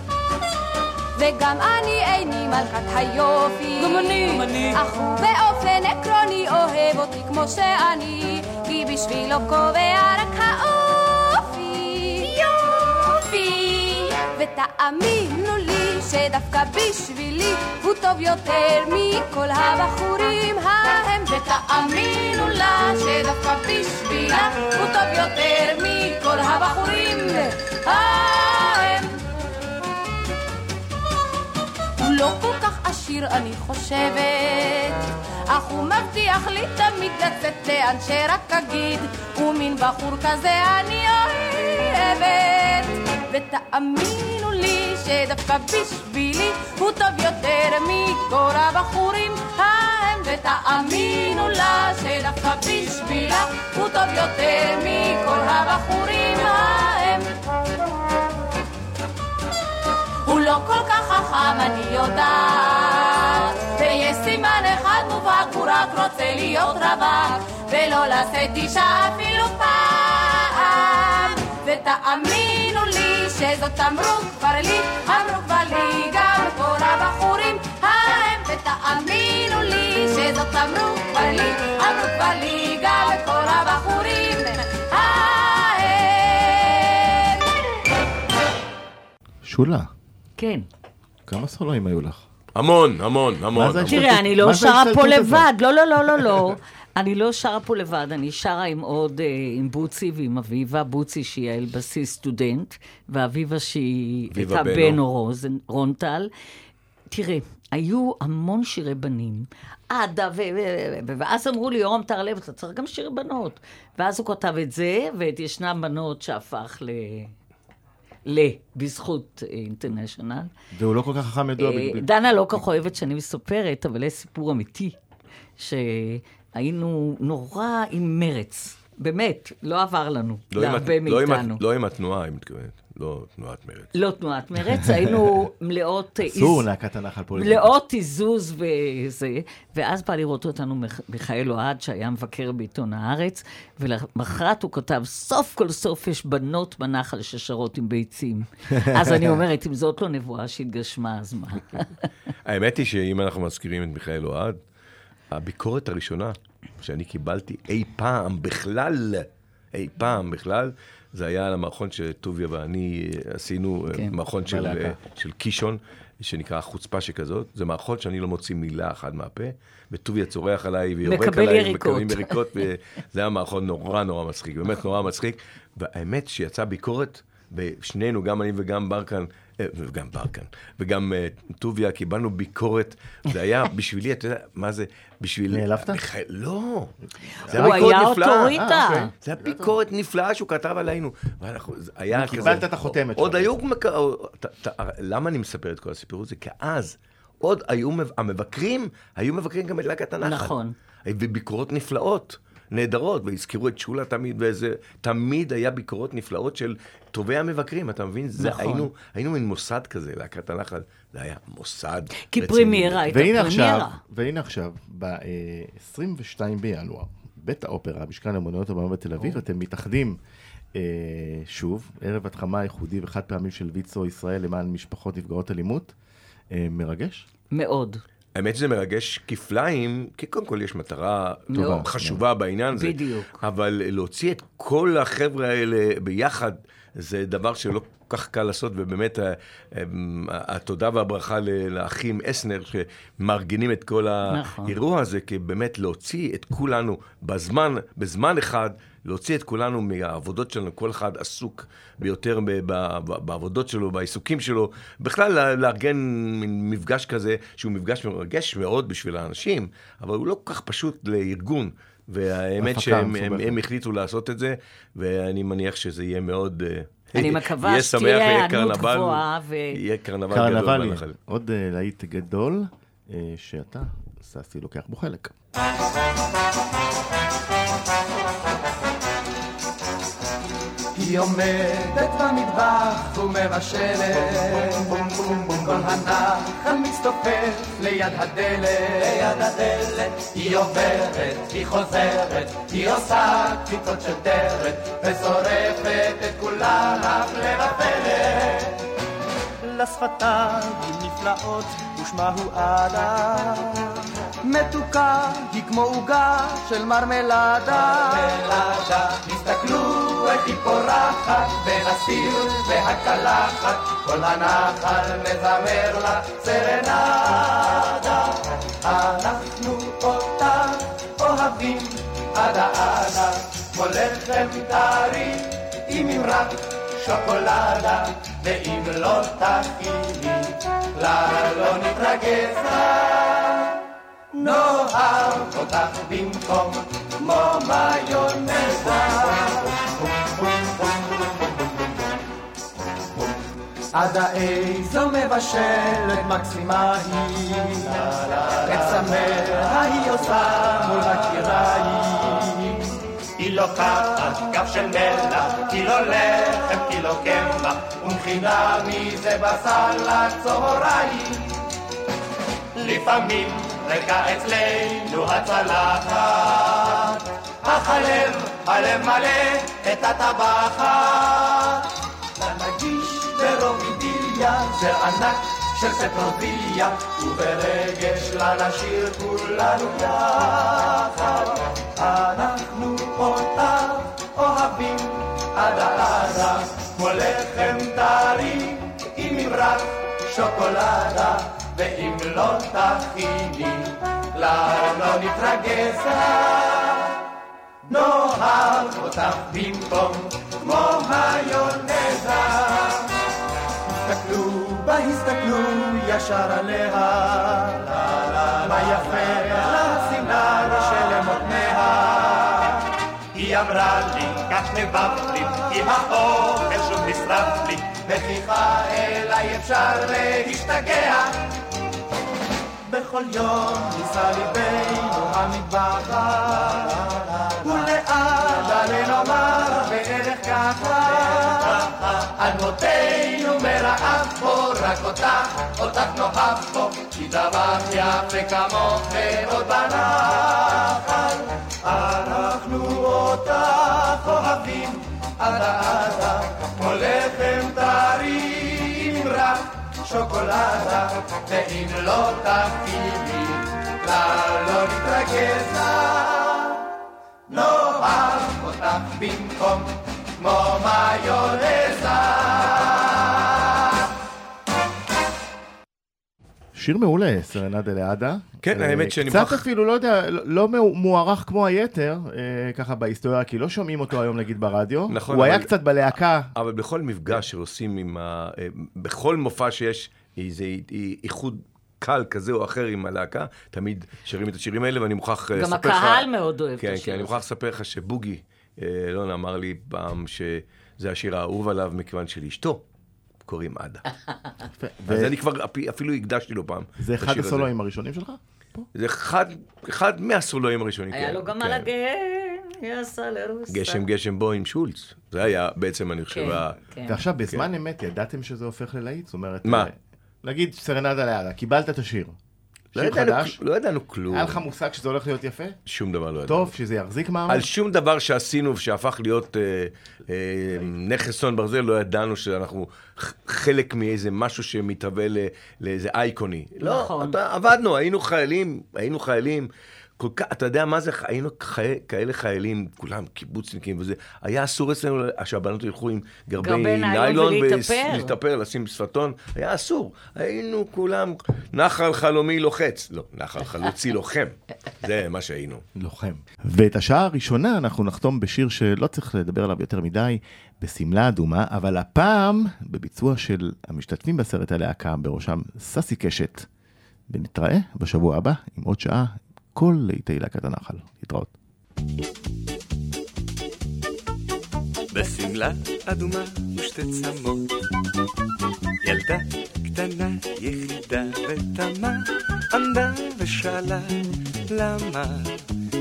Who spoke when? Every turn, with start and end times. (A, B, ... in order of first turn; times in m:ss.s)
0:01.2-0:29.1 A
0:32.0-0:57.3 A
1:00.2-1:27.5 A
1:29.4-1:29.9 B
1:30.4-1:30.7 C
1:31.3-1:32.2 B
1:32.6-1:34.1 D
1:33.5-1:35.5 B
1:33.9-1:46.3 C
1:44.3-1:45.0 D
1:47.1-1:57.3 C
1:58.3-2:00.5 C
2:00.7-2:02.1 B
2:01.6-2:05.0 C
2:05.6-2:11.6 C
2:10.5-2:13.9 D
2:14.0-2:16.6 C
2:16.2-2:17.7 B
2:17.4-2:32.0 C
2:28.9-2:29.4 B
2:32.4-2:34.6 D
2:35.3-3:07.0 D
2:44.4-2:45.0 B
2:51.0-2:52.6 C
3:05.5-3:06.0 B
3:07.4-3:09.8 B
3:07.5-3:08.7 D
3:07.5-3:09.1 C
3:09.2-3:33.1 D
3:12.1-3:13.5 B
3:12.4-3:12.6 C
3:20.2-3:20.8 C
3:28.4-3:28.9 C
3:32.3-3:34.0 C
3:33.1-3:40.2 B
3:40.8-3:45.9 B
3:46.5-3:47.3 B
3:47.5-3:48.0 C
3:48.4-4:31.2 D
3:51.5-3:51.9 C
3:51.6-3:52.2 B
3:52.7-3:53.4 C
4:04.3-4:04.8 C
4:22.6-4:23.6 B
4:27.2-4:29.8 C
4:30.3-4:35.3 B
4:41.0-4:58.8 E
4:59.6-5:03.8 E
5:04.4-5:33.7 E
5:34.3-5:39.7 E
5:43.9-5:52.8 E
5:53.4-6:01.6 E
6:02.8-6:11.8 E
6:12.4-6:37.0 E
6:37.9-6:43.1 E
6:44.0-6:52.8 E
6:53.3-7:01.3 E
7:02.9-7:36.8 E
7:37.5-7:43.5 E
7:46.8-7:56.5 B
7:48.6-7:49.6 D
7:55.1-7:55.7 D
7:56.6-8:06.3 D
8:05.6-8:07.4 C
8:06.8-8:12.8 D
8:13.4-8:14.0 D
8:14.8-8:15.3 B
8:15.1-8:17.7 D
8:17.0-8:18.8 B
8:19.0-8:21.9 D
8:21.1-8:24.0 C
8:23.7-8:26.8 D
8:26.3-8:27.2 C
8:27.1-8:32.4 B
8:29.6-8:29.9 D
8:32.9-8:33.6 B
8:33.0-8:34.6 D
8:34.3-8:35.8 B
8:35.9-8:36.7 D
8:36.5-8:37.7 B
8:37.5-9:05.8 D
8:46.8-8:47.4 C
8:56.6-8:58.3 C
9:06.0-9:16.7 B
9:17.3-9:21.5 B
9:25.1-9:27.7 F
9:29.0-9:35.6 F